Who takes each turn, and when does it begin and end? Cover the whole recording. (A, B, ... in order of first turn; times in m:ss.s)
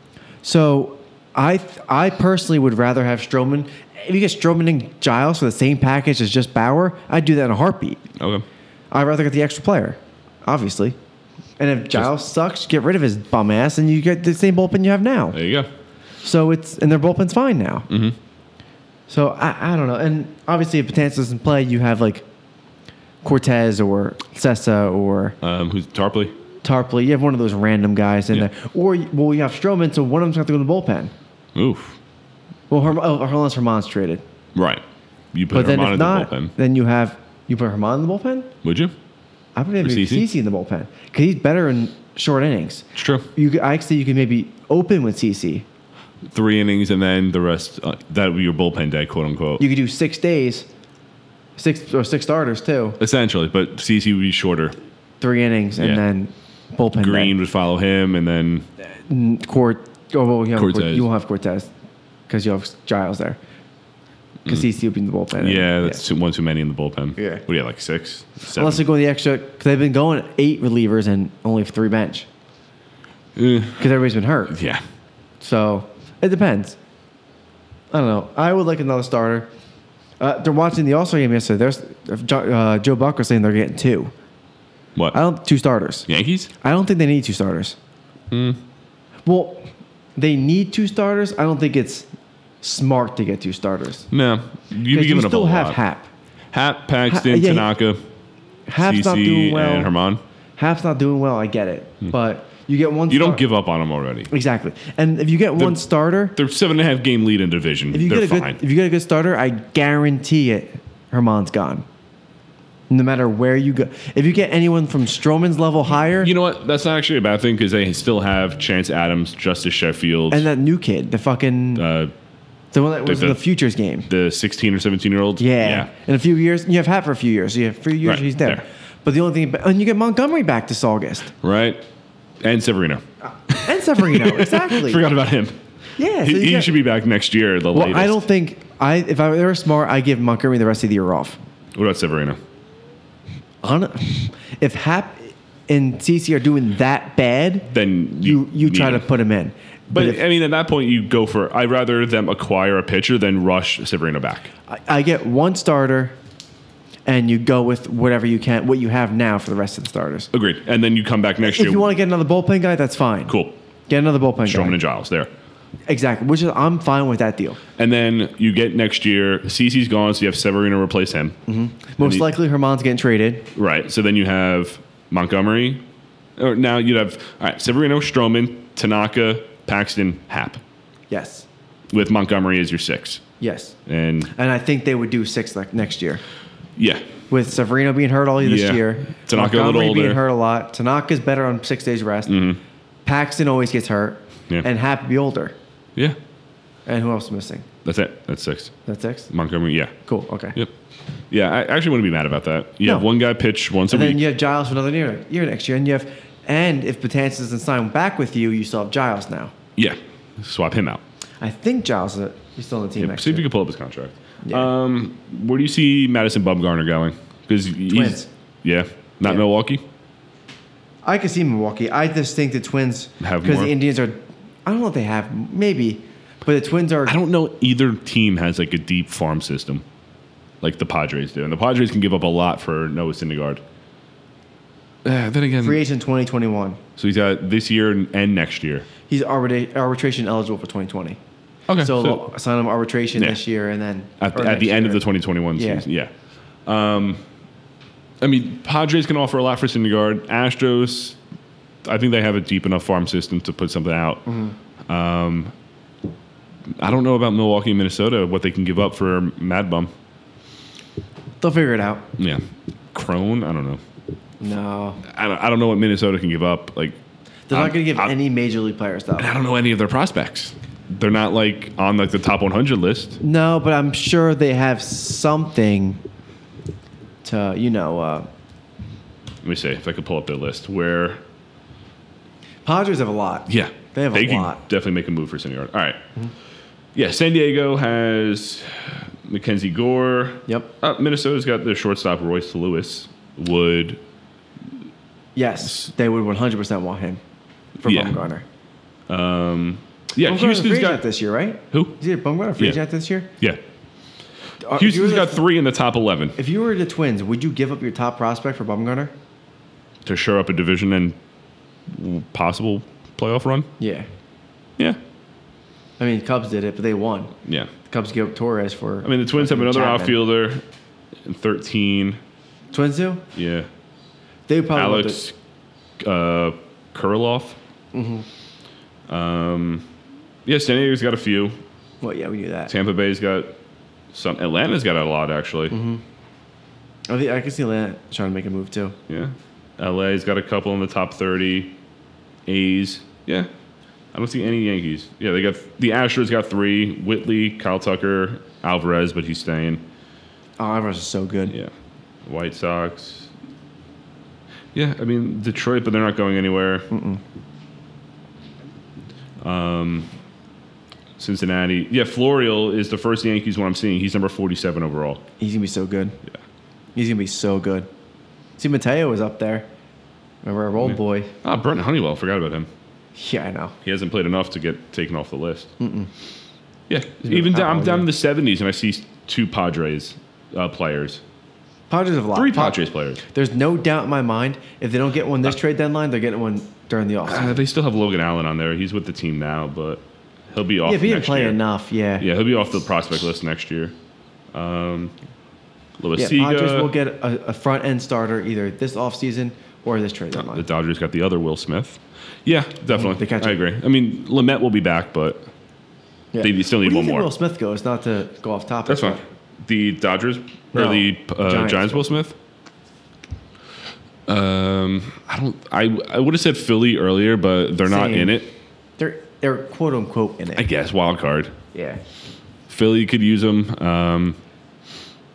0:00.4-0:08.0 A
0:08.2-0:08.4 B
0:08.9-0:11.0 A
0:11.6-0:15.4 A
0:15.3-0:15.7 B
0:16.2-0:17.9 A
0:17.9-0:18.2 B
0:19.1-0:22.2 A
0:23.2-0:25.4 A
0:25.4-0:26.3 B
0:26.6-0:31.1 A
0:31.5-0:32.0 B
0:32.7-0:34.2 A
0:34.5-0:36.5 B
0:35.5-0:38.5 A
0:38.6-0:38.9 B
0:39.6-0:45.6 A
0:39.8-0:40.2 B
0:43.0-0:43.3 B
0:46.3-0:49.6 B
0:49.6-0:50.7 A
0:51.6-0:53.0 A
0:53.0-0:54.7 B
0:55.2-0:57.3 A
0:55.8-0:56.0 B
0:57.0-0:58.7 B
0:59.1-1:01.7 A
1:00.5-1:01.1 B
1:02.3-1:03.4 A
1:04.4-1:06.0 A
1:05.4-1:08.8 B
1:07.2-1:07.4 A
1:08.5-1:12.3 A
1:13.4-1:13.9 B
1:13.8-1:14.6 A
1:14.5-1:14.8 B
1:15.4-1:16.8 A
1:17.9-1:19.5 A
1:20.2-1:24.1 A
1:25.1-1:26.1 A
1:26.1-1:26.5 B
1:26.6-1:27.8 A
1:28.3-1:28.6 B
1:29.2-1:29.6 A
1:30.2-1:32.1 A
1:32.6-1:34.1 A
1:34.1-1:35.8 B
1:34.9-1:36.1 A
1:36.5-1:38.0 B
1:37.1-1:37.7 A
1:38.7-1:39.9 A
1:38.8-1:40.2 B
1:40.6-1:43.4 A
1:43.1-1:44.3 B
1:44.3-1:46.4 A
1:46.3-1:48.6 B
1:47.9-1:51.8 A
1:52.9-1:56.3 A
1:56.0-2:00.5 B
2:00.3-2:01.8 A
2:01.8-2:02.1 B
2:02.7-2:04.1 A
2:03.0-2:03.4 B
2:04.1-2:05.9 B
2:05.4-2:11.3 A
2:08.0-2:08.6 B
2:11.4-2:11.8 B
2:12.4-2:15.6 B
2:13.6-2:15.0 A
2:16.0-2:16.7 A
2:16.2-2:18.2 B
2:17.7-2:21.4 A
2:21.7-2:22.4 B
2:23.6-2:30.2 A
2:27.7-2:29.0 B
2:29.9-2:34.5 B
2:34.7-2:36.1 A
2:37.0-2:40.3 A
2:40.3-2:41.9 B
2:41.4-2:43.3 A
2:43.3-2:43.6 B
2:43.9-2:44.8 A
2:44.4-2:45.3 B
2:45.9-2:47.6 A
2:47.8-2:51.4 B
2:51.5-2:53.5 A
2:53.5-2:55.8 B
2:56.4-3:00.6 B
3:01.1-3:01.4 A
3:01.9-3:03.2 B
3:03.4-3:03.8 A
3:03.8-3:04.3 B
3:04.3-3:06.2 A
3:06.8-3:07.0 B
3:07.3-3:12.4 A
3:08.4-3:10.2 B
3:12.3-3:12.6 B
3:13.0-3:15.5 A
3:16.9-3:17.6 A
3:17.8-3:18.7 B
3:18.8-3:19.3 A
3:19.3-3:19.9 B
3:20.0-3:20.6 A
3:21.3-3:24.2 B
3:23.9-3:29.5 A
3:29.8-3:31.0 B
3:31.4-3:33.5 A
3:33.0-3:39.8 B
3:34.4-3:34.7 A
3:37.9-3:38.3 A
3:41.0-3:47.1 A
3:43.2-3:43.7 B
3:47.0-3:49.8 B
3:50.6-3:53.6 B
3:55.0-3:55.8 B
3:55.6-3:56.8 A
3:57.0-3:58.9 B
3:59.1-4:01.2 A
4:01.7-4:02.2 B
4:01.8-4:05.0 A
4:04.2-4:06.1 B
4:05.5-4:05.8 A
4:06.6-4:07.2 B
4:08.2-4:11.2 B
4:11.8-4:14.3 B
4:14.3-4:14.5 A
4:14.9-4:15.5 B
4:16.8-4:19.9 B
4:21.4-4:22.0 A
4:22.2-4:23.8 B
4:24.4-4:25.0 A
4:25.1-4:27.0 B
4:27.5-4:29.3 A
4:27.5-4:28.1 B
4:29.2-4:33.2 B
4:33.2-4:36.0 A
4:37.2-4:38.3 A
4:39.4-4:41.2 B
4:42.6-4:44.6 A
4:43.5-4:46.0 B
4:46.9-4:54.0 B
4:55.3-4:57.2 A
4:57.8-4:58.4 A
4:57.8-4:58.2 B
4:59.1-5:01.0 B
5:00.2-5:03.3 A
5:04.6-5:05.4 A
5:04.8-5:06.4 B
5:06.4-5:09.1 A
5:10.0-5:11.2 B
5:11.9-5:13.7 B
5:13.8-5:14.1 A
5:16.0-5:17.3 A
5:17.4-5:17.7 B
5:17.8-5:20.2 A
5:19.0-5:20.6 B
5:21.2-5:22.2 B
5:22.7-5:23.2 A
5:23.3-5:23.7 B
5:24.5-5:25.2 A
5:24.7-5:25.4 B
5:26.0-5:27.6 B
5:27.9-5:28.2 A
5:29.1-5:29.8 B
5:30.4-5:31.6 B
5:32.0-5:32.7 A
5:32.7-5:33.5 B
5:34.1-5:35.8 B
5:35.7-5:36.0 A
5:37.1-5:38.9 A
5:39.1-5:41.8 B
5:42.5-5:43.5 B
5:44.1-5:49.8 B
5:50.6-5:51.5 A
5:52.2-5:53.3 B
5:54.7-5:56.9 B
5:56.9-5:57.2 A
5:59.4-6:00.1 B
6:01.2-6:05.2 B
6:05.4-6:06.2 A
6:07.0-6:07.9 A
6:08.6-6:09.7 A
6:10.4-6:11.3 A
6:10.8-6:12.7 B
6:13.2-6:13.7 A
6:13.8-6:15.7 B
6:15.8-6:16.1 A
6:16.9-6:21.2 B
6:17.2-6:18.1 A
6:21.9-6:27.6 A
6:22.3-6:23.2 B
6:27.3-6:31.6 B
6:30.8-6:32.3 A
6:32.2-6:33.9 B
6:34.5-6:35.1 B
6:36.0-6:36.9 B
6:36.2-6:40.6 A
6:40.3-6:45.5 B
6:42.9-6:43.6 A
6:46.3-6:49.2 A
6:46.4-6:47.3 B
6:48.9-6:52.4 B
6:50.7-6:52.1 A
6:54.2-6:58.5 B
6:57.8-6:58.4 A
6:59.0-7:00.7 A
7:00.6-7:01.5 B
7:01.7-7:02.0 A
7:02.7-7:04.4 B